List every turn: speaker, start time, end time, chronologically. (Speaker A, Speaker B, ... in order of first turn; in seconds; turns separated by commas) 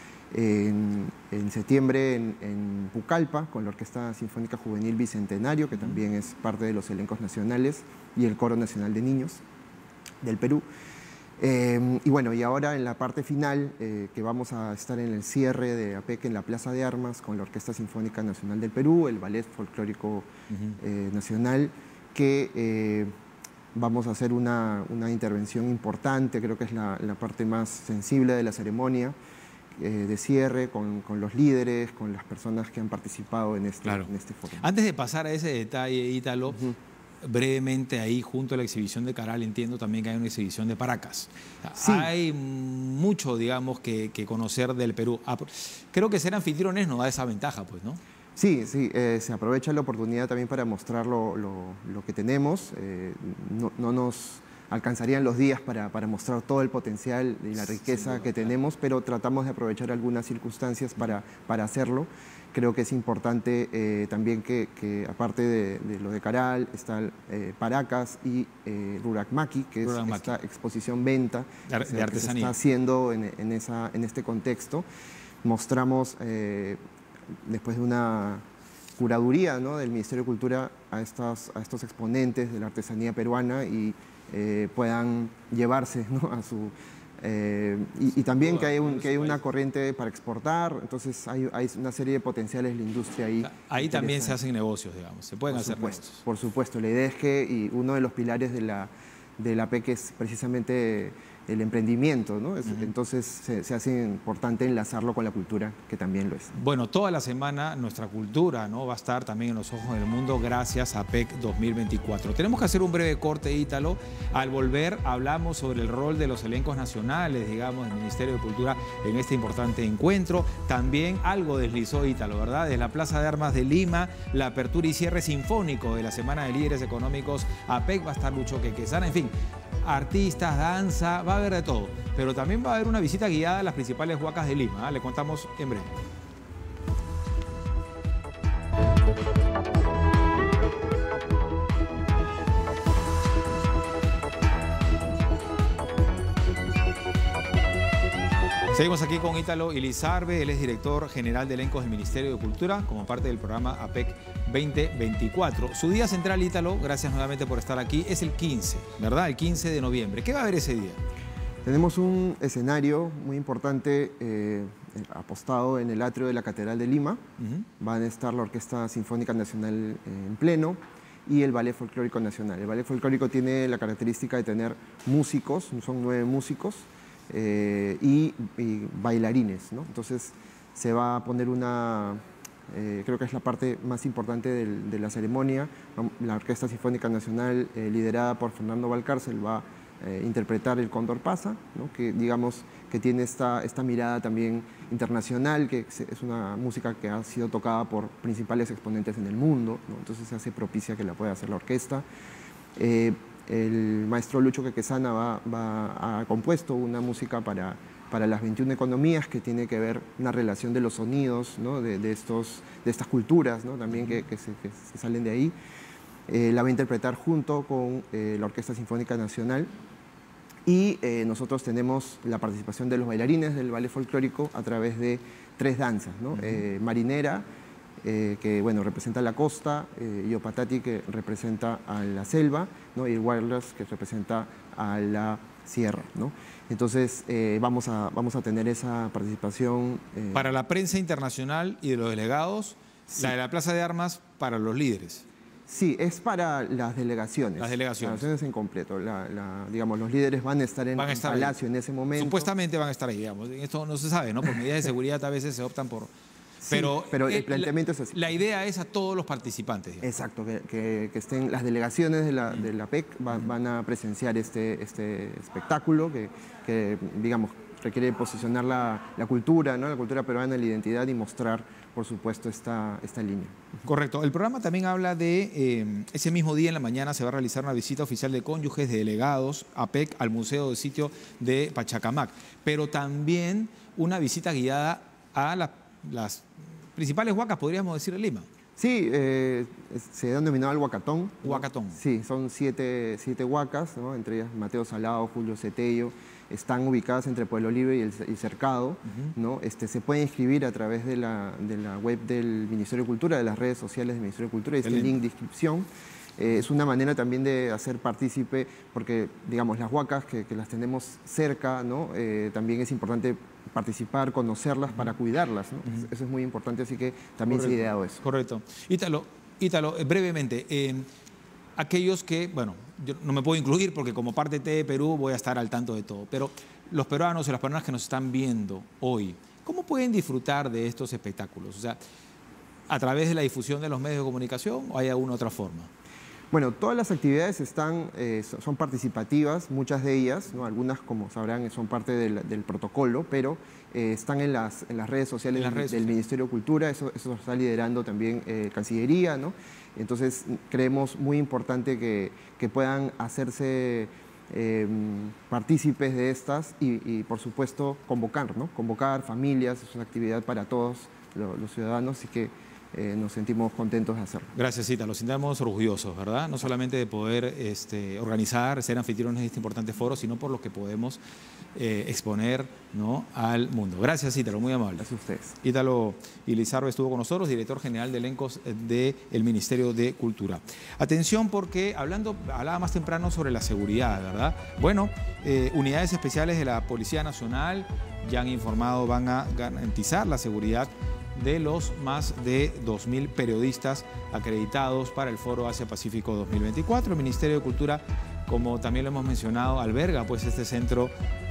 Speaker A: 0.3-9.4, Speaker A: 10.2-10.6, Speaker A: 11.4-23.1, Speaker B: 20.5-20.8, Speaker A: 23.7-29.1, Speaker A: 29.8-34.6, Speaker B: 34.6-36.7, Speaker B: 37.2-48.0, Speaker A: 41.8-42.1, Speaker A: 48.4-74.9, Speaker B: 57.6-58.5, Speaker B: 69.8-70.4, Speaker B: 71.7-72.5, Speaker A: 75.4-76.8, Speaker A: 77.4-78.4, Speaker A: 79.0-94.4, Speaker B: 88.1-89.4, Speaker B: 93.4-96.2, Speaker A: 95.5-106.5, Speaker B: 106.5-135.9, Speaker B: 148.7-161.0, Speaker A: 161.6-167.2, Speaker B: 167.4-167.7, Speaker A: 167.8-202.0, Speaker A: 202.8-215.5, Speaker A: 216.3-219.7, Speaker A: 220.7-227.4, Speaker A: 228.0-240.5, Speaker B: 240.3-245.2, Speaker A: 245.7-252.5, Speaker B: 247.6-248.2, Speaker B: 250.9-251.6, Speaker B: 252.1-256.1, Speaker A: 256.6-258.3, Speaker B: 256.7-260.1, Speaker A: 260.0-273.6, Speaker B: 273.8-288.5, Speaker A: 288.8-305.9, Speaker B: 291.4-292.0, Speaker B: 299.1-299.3, Speaker B: 304.8-305.1, Speaker A: 306.4-318.2, Speaker B: 317.5-321.1, Speaker B: 321.8-332.0, Speaker B: 332.9-335.9, Speaker A: 336.5-364.5, Speaker B: 345.6-346.2, Speaker B: 364.5-371.2, Speaker B: 371.7-375.1, Speaker A: 375.0-375.6, Speaker B: 375.6-401.1